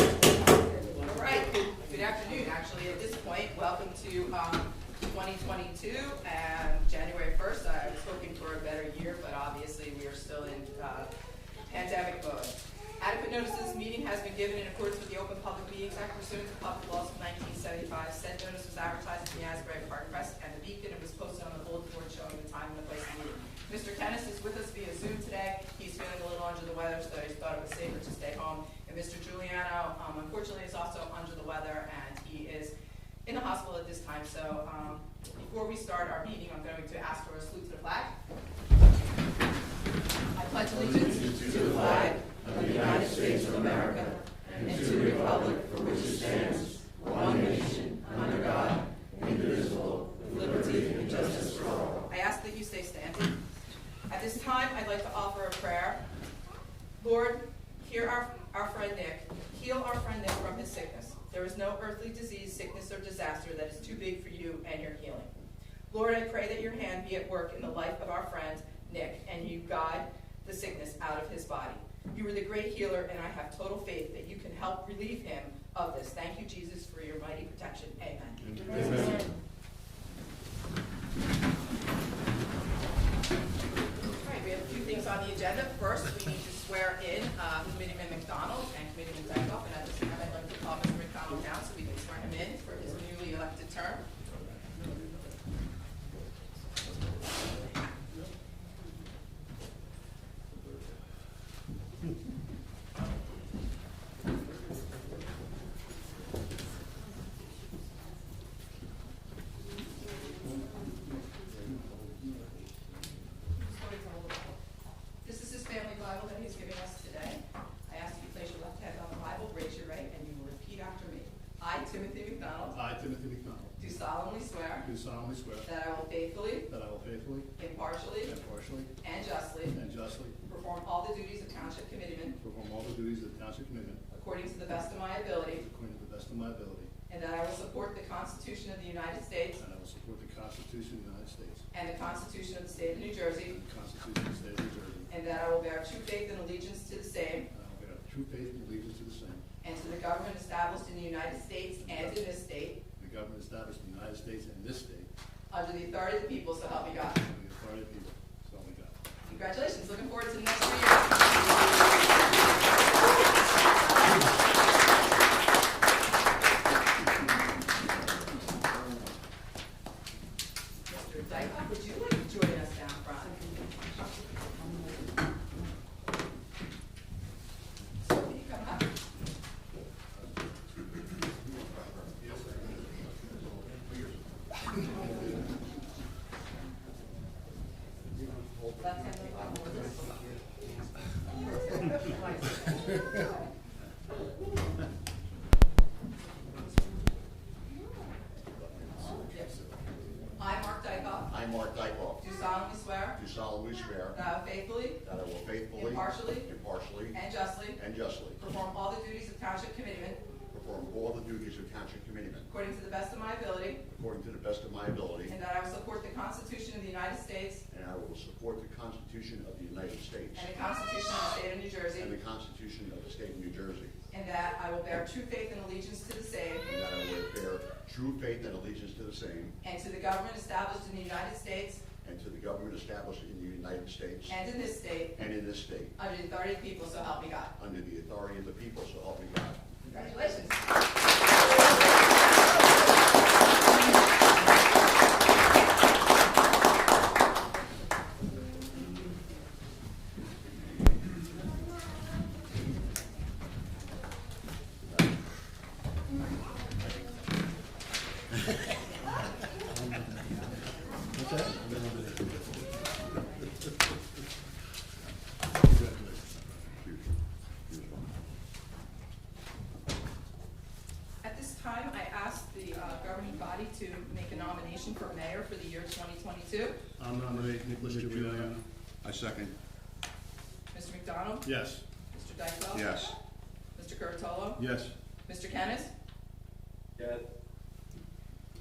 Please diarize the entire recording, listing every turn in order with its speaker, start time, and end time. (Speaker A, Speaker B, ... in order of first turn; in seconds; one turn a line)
Speaker A: 1.0-11.1
Speaker A: 11.6-32.7
Speaker A: 33.2-38.2
Speaker A: 40.3-53.4
Speaker A: 54.1-56.0
Speaker A: 57.0-65.3
Speaker A: 65.9-79.2
Speaker B: 78.5-79.2
Speaker A: 84.1-94.0
Speaker A: 113.5-114.6
Speaker A: 115.2-122.8
Speaker B: 122.7-123.8
Speaker A: 123.8-124.9
Speaker B: 124.8-125.7
Speaker A: 125.6-126.7
Speaker B: 126.7-127.5
Speaker A: 127.6-128.4
Speaker B: 128.2-128.9
Speaker A: 129.0-129.8
Speaker B: 129.7-130.3
Speaker A: 130.4-132.4
Speaker B: 132.4-134.0
Speaker A: 134.1-135.6
Speaker B: 135.6-136.9
Speaker A: 137.1-139.6
Speaker B: 139.6-141.6
Speaker A: 141.7-143.6
Speaker B: 143.5-145.1
Speaker A: 145.1-147.5
Speaker B: 147.5-149.4
Speaker A: 149.6-152.8
Speaker B: 151.8-152.2
Speaker B: 153.0-155.1
Speaker A: 155.5-157.2
Speaker B: 157.2-159.0
Speaker A: 159.2-164.3
Speaker A: 170.9-173.5
Speaker A: 178.0-178.9
Speaker C: 181.7-182.0
Speaker B: 182.2-183.2
Speaker C: 183.6-184.2
Speaker C: 188.1-189.8
Speaker A: 188.8-190.3
Speaker A: 191.9-192.4
Speaker C: 198.5-199.9
Speaker A: 199.3-199.6
Speaker A: 200.4-201.3
Speaker C: 201.3-202.2
Speaker A: 202.2-203.2
Speaker C: 203.1-204.2
Speaker A: 204.1-205.0
Speaker C: 205.0-207.2
Speaker A: 205.7-206.5
Speaker A: 207.1-207.8
Speaker C: 207.7-208.4
Speaker A: 208.4-210.3
Speaker C: 210.5-212.5
Speaker A: 212.5-213.8
Speaker C: 213.9-215.3
Speaker A: 215.2-217.6
Speaker C: 217.7-220.5
Speaker A: 220.3-222.1
Speaker C: 222.0-224.0
Speaker A: 224.1-226.6
Speaker C: 226.6-229.6
Speaker A: 229.6-231.8
Speaker C: 232.0-234.4
Speaker A: 234.3-235.2
Speaker C: 235.2-235.9
Speaker A: 235.9-237.5
Speaker C: 237.6-239.7
Speaker A: 239.8-240.7
Speaker B: 261.1-261.9
Speaker B: 265.6-266.4
Speaker C: 266.8-267.1
Speaker C: 267.7-268.1
Speaker A: 271.2-276.8
Speaker B: 277.0-278.6
Speaker C: 277.8-279.5
Speaker A: 280.7-281.5
Speaker B: 281.4-281.8
Speaker A: 282.1-283.1
Speaker C: 282.7-283.1
Speaker A: 283.7-284.6
Speaker B: 284.6-284.9
Speaker A: 285.2-285.9